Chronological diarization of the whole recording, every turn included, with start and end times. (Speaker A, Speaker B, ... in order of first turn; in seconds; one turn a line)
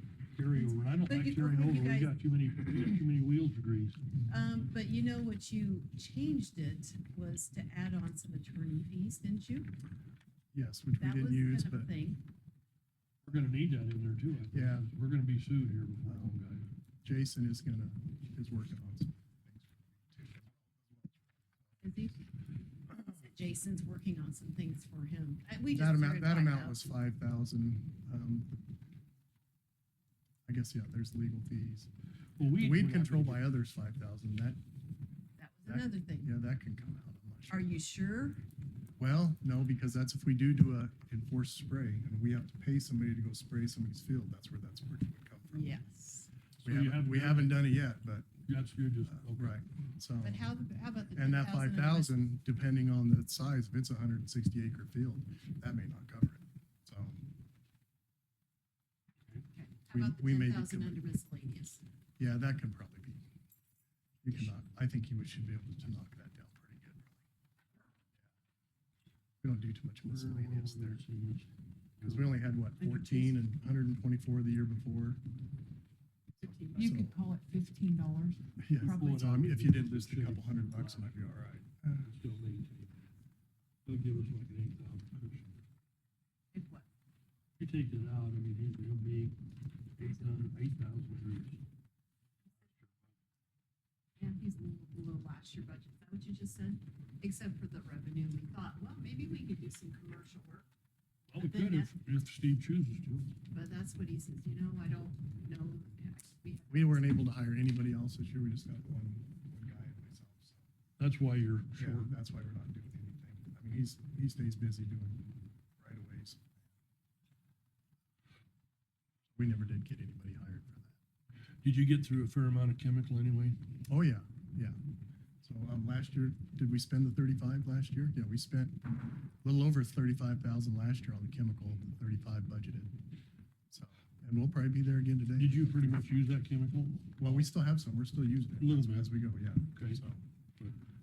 Speaker A: 0.3-4.0
Speaker B: 0.5-2.1
Speaker B: 4.3-9.7
Speaker C: 10.5-11.9
Speaker B: 11.0-12.2
Speaker A: 13.2-16.7
Speaker C: 14.5-14.9
Speaker C: 16.1-16.4
Speaker C: 17.0-21.7
Speaker B: 21.8-22.2
Speaker B: 22.9-26.9
Speaker C: 25.7-28.6
Speaker C: 30.4-31.9
Speaker A: 32.4-33.5
Speaker C: 32.5-34.6
Speaker B: 35.4-36.3
Speaker C: 35.6-37.8
Speaker B: 37.5-38.4
Speaker C: 39.0-45.9
Speaker B: 45.5-46.3
Speaker A: 46.6-47.7
Speaker C: 46.6-48.3
Speaker A: 48.5-49.6
Speaker C: 49.1-50.5
Speaker B: 50.2-52.2
Speaker C: 51.1-57.2
Speaker B: 59.5-61.8
Speaker C: 59.9-61.0
Speaker C: 62.2-63.2
Speaker C: 64.2-67.2
Speaker C: 69.4-71.0
Speaker A: 70.1-72.3
Speaker C: 72.0-75.2
Speaker B: 72.8-73.4
Speaker B: 76.4-76.8
Speaker C: 76.6-77.2
Speaker D: 76.7-79.2
Speaker C: 78.6-82.1
Speaker A: 78.8-81.1
Speaker A: 82.0-83.0
Speaker A: 83.8-85.6
Speaker B: 86.5-86.9
Speaker A: 87.6-89.4
Speaker A: 89.9-91.6
Speaker A: 92.6-93.1
Speaker B: 94.2-100.7
Speaker A: 101.3-103.3
Speaker B: 101.3-101.9
Speaker B: 103.5-107.1
Speaker C: 106.7-110.6
Speaker A: 111.0-112.1
Speaker C: 111.8-116.5
Speaker C: 119.3-120.9
Speaker A: 121.6-123.6
Speaker C: 123.9-124.8
Speaker C: 125.4-133.0
Speaker C: 133.7-136.0
Speaker A: 135.4-137.5
Speaker C: 137.2-140.2
Speaker A: 138.6-139.1
Speaker A: 139.7-140.0